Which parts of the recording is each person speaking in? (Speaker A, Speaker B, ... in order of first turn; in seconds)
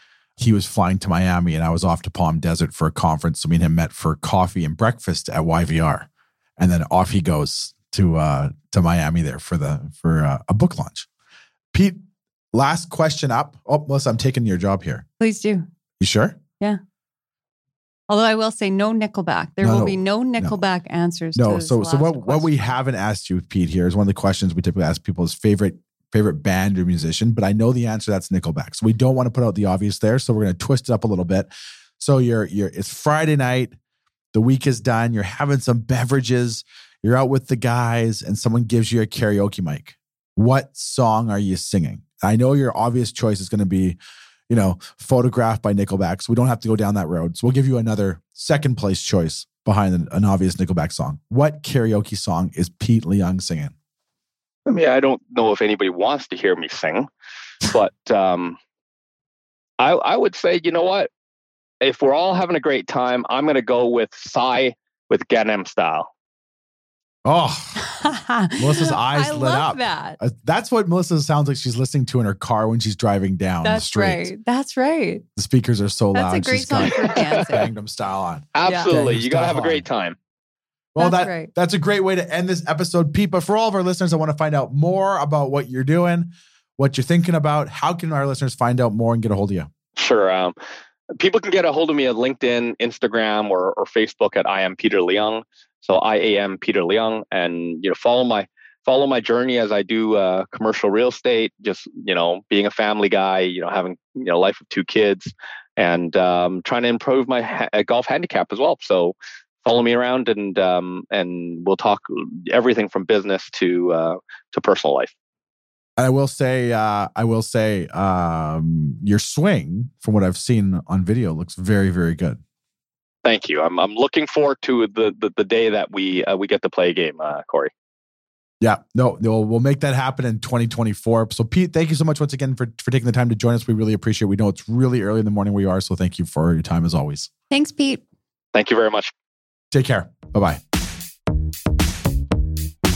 Speaker A: 0.4-11.1, 11.7-12.0, 12.5-15.1, 16.0-16.4, 19.6-20.6, 21.4-33.8, 34.3-53.7, 67.2-68.0, 68.6-74.3, 75.4-79.9, 81.0-89.7, 116.0-122.4, 128.6-137.3, 139.7-140.6
Speaker B: 15.2-15.7, 18.1-22.5, 67.8-70.2, 73.6-75.2, 76.1-77.7, 78.7-79.0, 81.0-81.5, 137.5-138.0
Speaker C: 54.7-57.1, 57.6-58.6, 59.8-61.1, 61.8-66.1, 77.0-77.5, 78.5-80.2, 90.0-90.5, 91.2-115.1, 123.2-127.7, 138.5-139.1